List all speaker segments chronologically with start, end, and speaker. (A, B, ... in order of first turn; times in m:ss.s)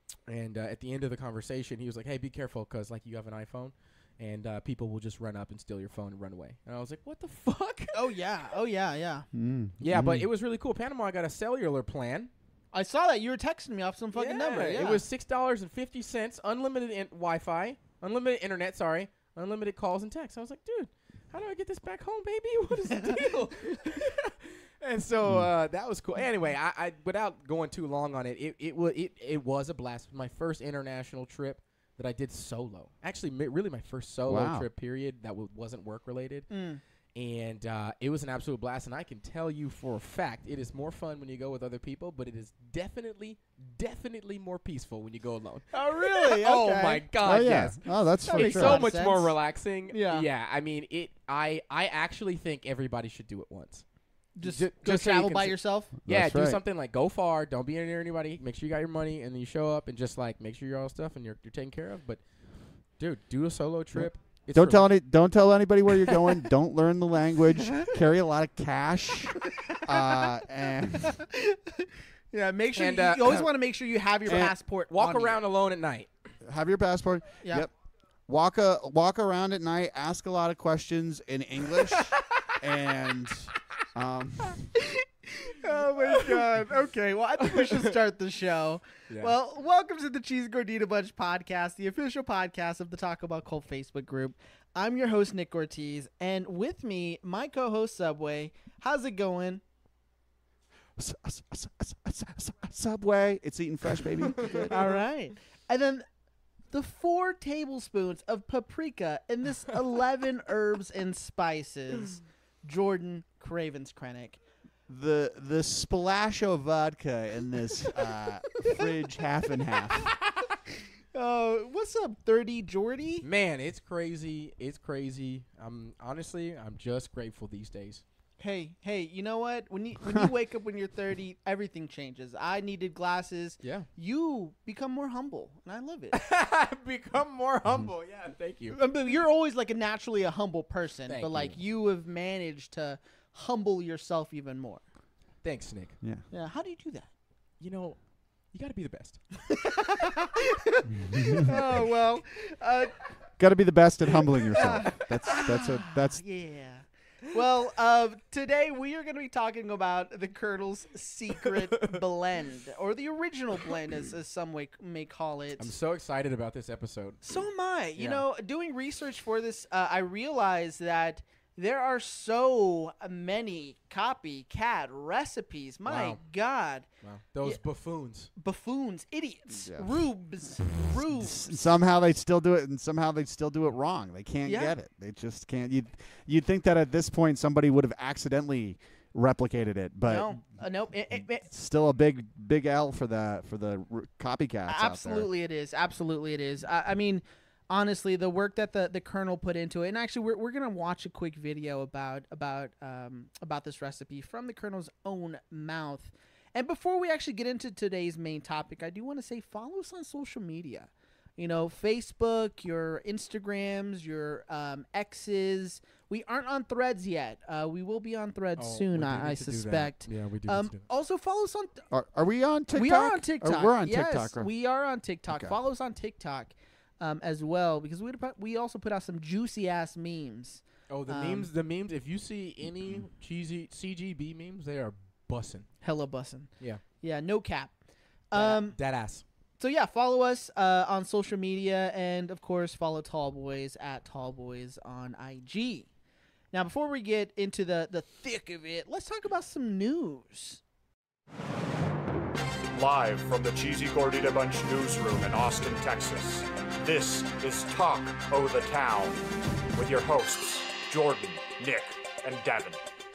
0:00.3-0:08.2 A
0:07.9-0:09.3 B
0:09.3-0:10.3 C
0:09.8-0:12.3 A
0:12.7-0:15.0 B
0:14.1-0:36.6 A
0:34.3-0:34.7 C
0:36.5-0:36.8 B
0:37.1-0:53.9 A
0:45.7-0:47.0 B
0:47.2-0:48.8 C
0:48.2-0:50.3 B
0:54.4-0:55.9 B
0:54.4-1:04.9 A
0:56.0-0:56.6 C
1:04.0-1:11.2 C
1:06.0-1:06.4 A
1:09.7-1:10.2 B
1:11.1-1:15.4 B
1:12.8-1:13.5 A
1:14.3-1:14.5 C
1:14.9-1:16.1 A
1:16.4-1:17.7 C
1:17.4-1:17.7 B
1:18.3-1:24.7 C
1:21.8-1:22.6 A
1:25.0-1:39.6 B
1:27.5-1:27.9 A
1:41.0-1:44.6 C
1:44.5-1:46.0 B
1:46.7-1:54.4 B
1:54.9-2:00.1 C
2:01.1-2:03.2 B
2:03.2-2:08.0 A
2:08.4-2:16.2 B
2:16.1-2:18.8 A
2:18.7-2:24.8 B
2:21.1-2:21.6 A
2:25.4-2:26.0 A
2:26.3-2:27.1 B
2:27.6-2:29.6 A
2:29.6-2:33.0 B
2:33.4-2:36.2 C
2:34.6-2:45.7 B
2:45.6-2:47.4 A
2:47.2-2:56.9 B
2:48.0-2:48.2 A
2:55.8-2:56.2 A
2:57.0-2:58.3 A
2:58.3-3:01.5 B
2:59.7-3:00.1 C
3:01.2-3:10.4 C
3:04.4-3:04.7 B
3:10.1-3:11.5 B
3:11.4-3:15.3 C
3:14.7-3:41.8 B
3:38.6-3:40.8 A
3:41.9-3:44.5 C
3:42.7-3:51.5 B
3:45.3-3:45.5 C
3:50.9-3:55.8 A
3:55.8-3:57.8 B
3:58.3-3:58.8 B
3:58.3-3:59.2 A
3:59.6-4:05.9 B
4:06.5-4:10.6 B
4:12.7-4:22.8 D